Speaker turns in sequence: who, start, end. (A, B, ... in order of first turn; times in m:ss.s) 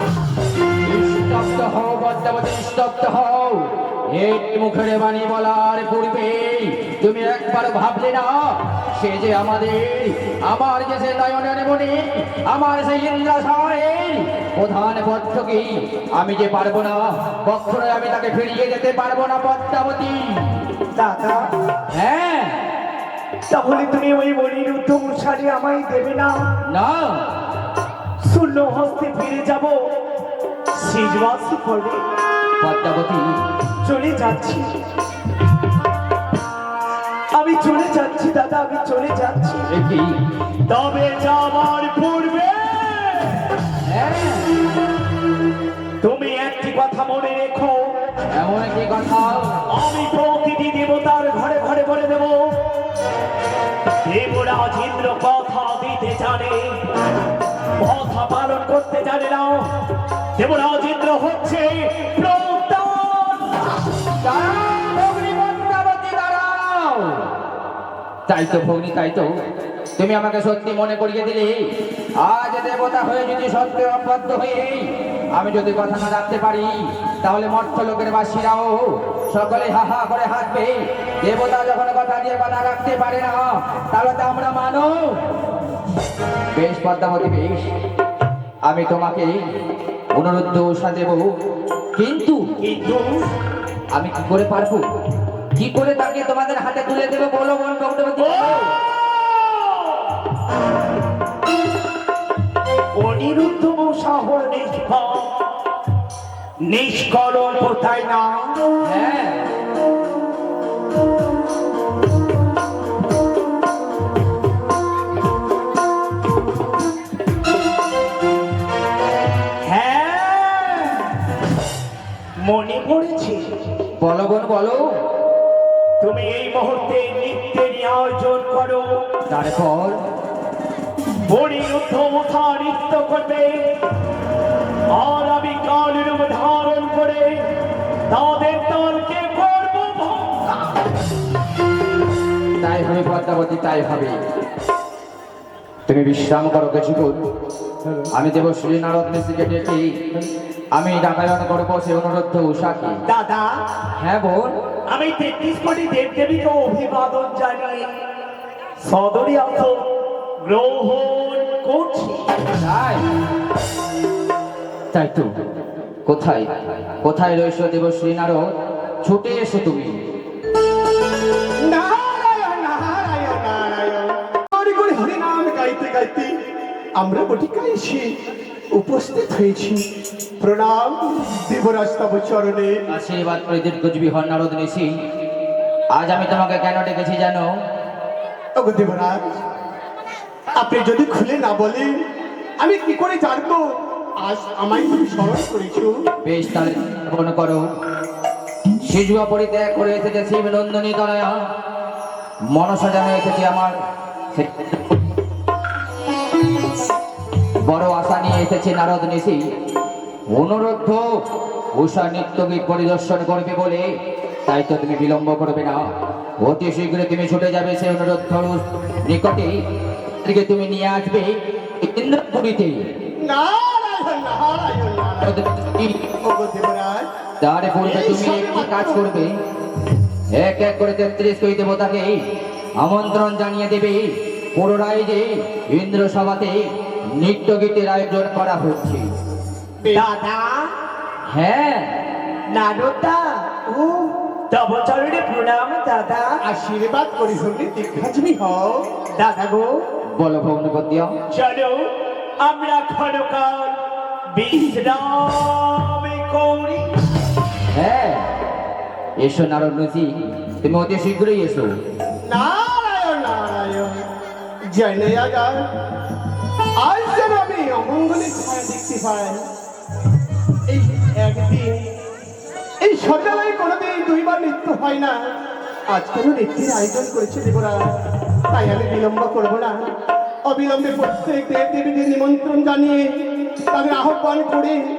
0:00.8-0:20.5 A
0:20.9-0:21.4 B
0:21.9-0:22.6 A
0:23.5-0:26.4 B
0:26.7-0:27.3 A
0:28.2-0:29.8 B
0:30.8-0:32.0 B
0:32.6-0:33.3 A
0:33.8-0:34.7 B
0:37.3-0:39.7 B
0:39.7-0:40.2 A
0:40.7-0:43.5 B
0:43.8-0:44.5 A
0:46.0-0:47.9 B
0:48.3-0:49.6 A
0:49.7-0:52.5 B
0:54.0-0:56.8 B
0:57.8-0:59.7 B
1:00.4-1:03.8 B
1:04.2-1:07.3 A
1:08.3-1:09.3 A
1:10.0-1:11.6 A
1:12.2-1:25.2 A
1:26.5-1:27.7 A
1:28.6-1:29.4 A
1:30.1-1:31.3 A
1:32.0-1:32.4 A
1:32.6-1:33.1 B
1:33.9-1:34.8 A
1:35.6-1:38.6 A
1:38.2-1:38.8 B
1:39.3-1:40.1 B
1:43.0-1:45.3 B
1:46.6-1:48.5 B
1:48.8-1:49.4 A
1:59.6-2:01.0 B
2:02.4-2:03.4 B
2:04.0-2:04.9 A
2:06.0-2:08.9 B
2:09.3-2:10.0 A
2:11.3-2:13.7 B
2:14.9-2:17.5 B
2:18.1-2:20.8 B
2:22.6-2:24.2 A
2:25.9-2:27.2 A
2:28.1-2:29.9 A
2:30.8-2:33.0 A
2:33.1-2:33.5 B
2:34.0-2:34.5 A
2:34.9-2:37.9 B
2:38.8-2:39.9 B
2:40.4-2:42.2 B
2:42.5-2:43.0 A
2:44.9-2:45.3 A
2:46.0-2:48.5 A
2:49.0-2:49.9 A
2:51.6-2:56.3 C
2:57.0-2:58.1 C
2:58.7-2:59.8 C
3:00.4-3:02.8 C
3:02.9-3:04.9 A
3:05.9-3:07.5 A
3:08.6-3:09.4 C
3:10.6-3:11.9 C
3:12.6-3:13.6 C
3:14.2-3:15.9 C
3:16.2-3:17.6 A
3:18.8-3:21.3 A
3:22.5-3:23.7 A
3:24.3-3:25.0 A
3:27.6-3:29.4 A
3:30.3-3:31.0 A
3:31.8-3:33.8 A
3:34.4-3:35.8 A
3:36.4-3:39.5 A
3:40.2-3:42.8 A
3:43.2-3:45.4 C
3:45.2-3:46.0 A
3:46.2-3:47.1 C
3:47.4-3:49.3 A
3:47.8-3:49.0 C
3:50.4-3:52.1 A
3:52.8-3:56.6 A
3:57.2-3:59.1 A
3:59.8-4:00.1 C
3:59.9-4:00.5 B
4:01.3-4:01.9 A
4:02.5-4:06.4 B
4:06.4-4:08.8 C
4:09.2-4:09.8 B
4:10.1-4:11.1 A
4:11.3-4:11.9 B
4:12.4-4:13.8 B
4:14.3-4:16.9 B
4:17.7-4:18.3 A
4:19.2-4:21.7 A
4:22.2-4:23.9 C
4:24.7-4:25.6 C
4:26.8-4:29.4 C
4:30.7-4:31.8 C
4:32.8-4:35.2 C
4:35.9-4:37.9 C
4:38.5-4:39.8 C
4:40.4-4:43.2 C
4:43.7-4:44.8 C